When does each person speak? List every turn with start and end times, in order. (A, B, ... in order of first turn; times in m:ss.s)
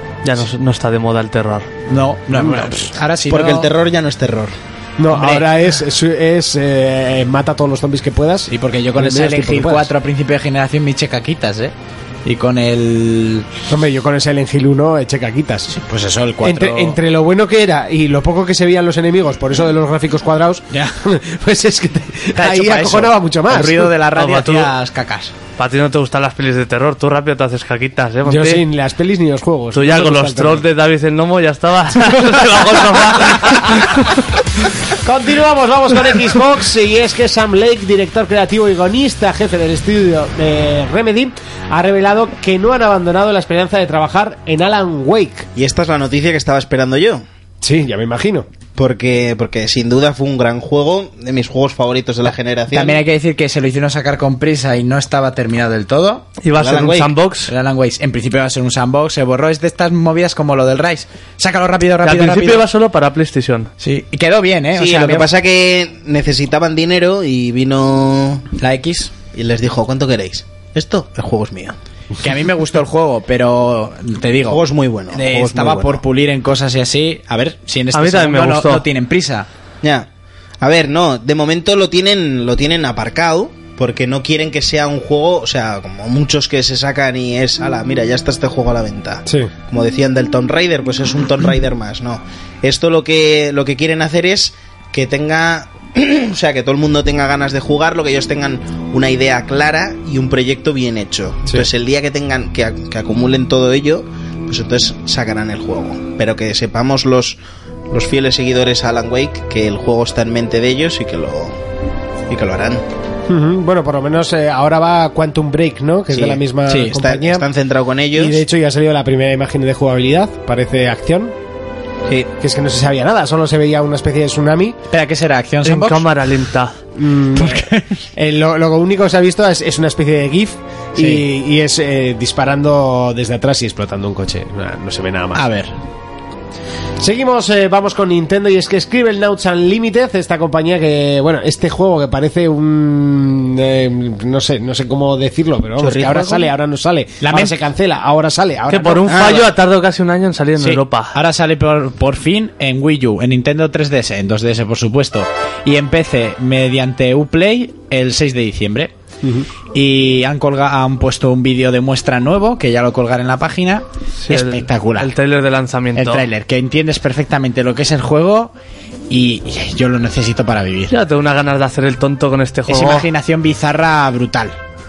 0:00.2-0:01.7 A
0:01.9-0:03.7 B
0:02.3-0:02.8 C
0:03.3-0:04.5 D
0:05.0-0:09.9 C
0:05.1-0:05.4 B
0:08.5-0:11.7 B
0:12.2-0:13.5 B
0:13.7-0:15.8 C
0:15.7-0:17.0 B
0:16.4-0:23.9 C
0:20.7-0:21.0 B
0:22.3-0:25.3 B
0:24.1-0:24.7 A
0:25.6-0:28.6 A
0:28.2-0:30.6 C
0:29.7-0:34.2 A
0:33.4-0:33.8 C
0:34.9-0:45.5 C
0:45.6-0:47.2 D
0:47.6-0:48.5 C
0:48.8-0:53.0 D
0:52.7-0:56.2 B
0:56.4-0:57.5 A
0:56.6-0:57.1 D
0:57.5-1:02.6 B
1:02.0-1:03.7 A
1:03.8-1:05.3 B
1:04.7-1:08.4 D
1:08.6-1:09.1 B
1:09.3-1:11.8 D
1:12.2-1:19.5 B
1:14.5-1:16.0 D
1:17.9-1:18.8 A
1:19.8-1:20.1 D
1:20.6-1:47.4 D
1:29.2-1:29.5 C
1:47.9-1:51.6 D
1:52.3-1:52.8 D
1:53.3-1:57.5 C
1:56.1-1:58.4 D
1:56.7-1:57.0 B
1:58.1-2:01.3 C
2:02.4-2:04.8 C
2:04.9-2:06.0 B
2:05.6-2:06.8 A
2:07.0-2:15.4 C
2:07.4-2:07.9 B
2:11.0-2:11.2 B
2:15.3-2:15.8 B
2:17.0-2:29.2 C
2:25.8-2:26.5 D
2:27.2-2:27.6 B
2:28.7-2:31.1 A
2:29.1-2:29.5 D
2:30.6-2:38.9 B
2:39.7-2:45.1 B
2:44.2-2:46.2 A
2:45.9-2:48.5 B
2:49.1-2:51.0 B
2:50.9-2:53.1 A
2:52.7-2:54.6 B